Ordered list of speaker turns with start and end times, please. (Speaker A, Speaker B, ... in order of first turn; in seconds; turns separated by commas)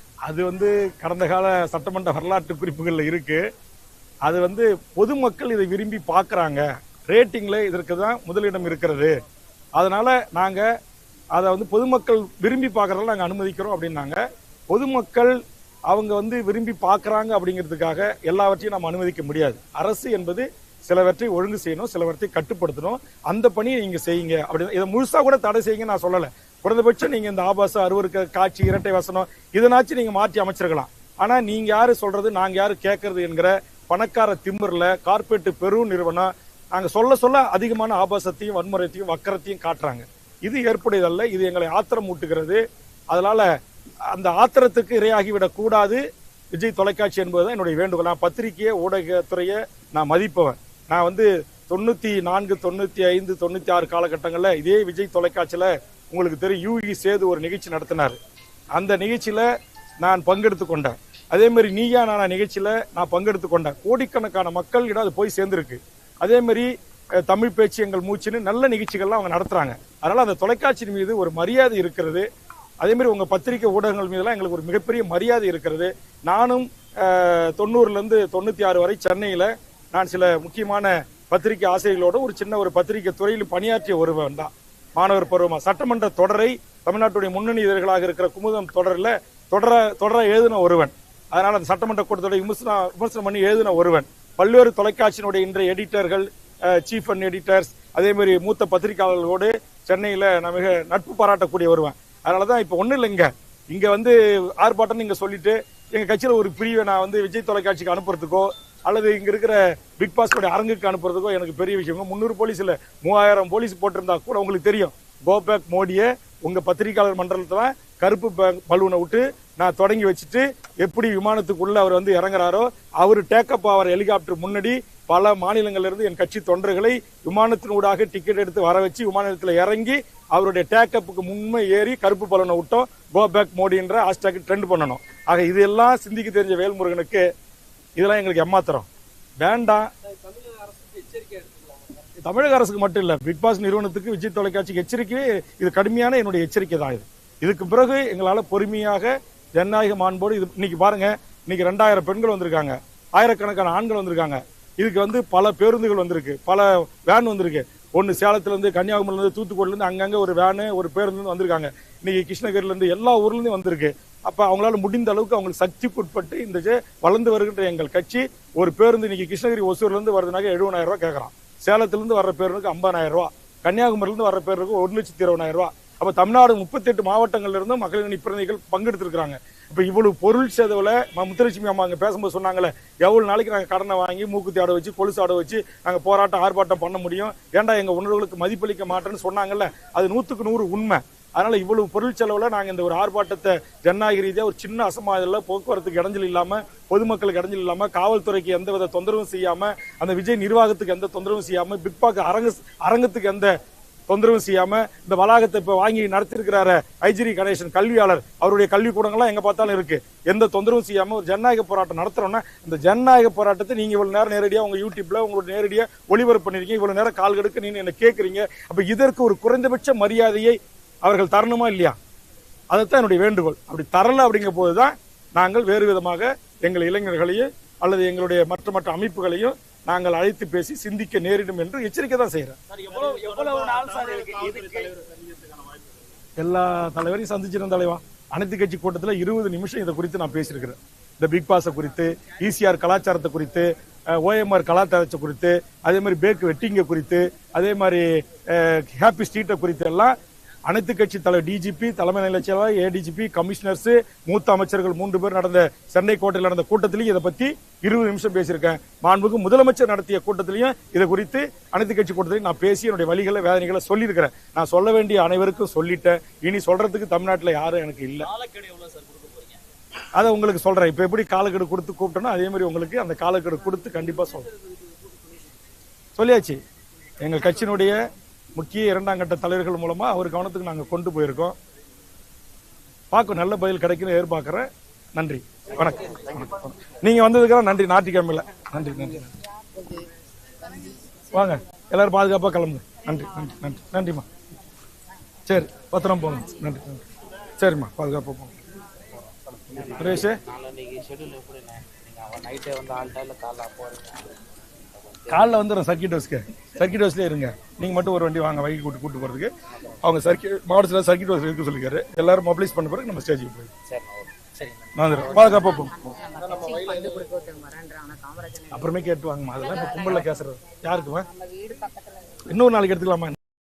Speaker A: 0.3-3.4, Speaker A: 4.2-9.1, Speaker A: 9.8-10.7, Speaker A: 11.3-14.2, Speaker A: 14.7-15.3, Speaker A: 15.9-43.5, Speaker A: 44.1-46.0, Speaker A: 46.5-58.2, Speaker A: 58.8-59.5, Speaker A: 60.0-66.7, Speaker A: 67.2-72.3, Speaker A: 72.8-137.2, Speaker A: 138.0-138.9, Speaker A: 139.4-139.9, Speaker B: 140.0-142.1, Speaker A: 142.2-203.5, Speaker A: 204.1-222.0, Speaker A: 222.7-232.6, Speaker B: 232.9-234.9, Speaker C: 233.0-234.3, Speaker A: 236.4-250.2, Speaker A: 250.7-268.3, Speaker B: 268.3-269.6, Speaker A: 270.2-274.5, Speaker A: 276.2-276.6, Speaker A: 277.2-278.0, Speaker A: 278.6-281.6, Speaker A: 283.1-284.6, Speaker A: 285.2-289.3, Speaker C: 289.7-290.1, Speaker C: 290.7-290.9, Speaker A: 291.3-294.3, Speaker A: 295.5-297.0, Speaker A: 297.6-298.6, Speaker B: 299.2-304.4, Speaker A: 299.9-300.4, Speaker B: 304.9-305.6, Speaker A: 305.3-313.7, Speaker B: 313.9-315.6, Speaker A: 314.9-316.1, Speaker C: 315.4-318.9, Speaker A: 318.7-321.3, Speaker C: 319.6-320.3, Speaker C: 321.1-322.5, Speaker A: 322.5-323.4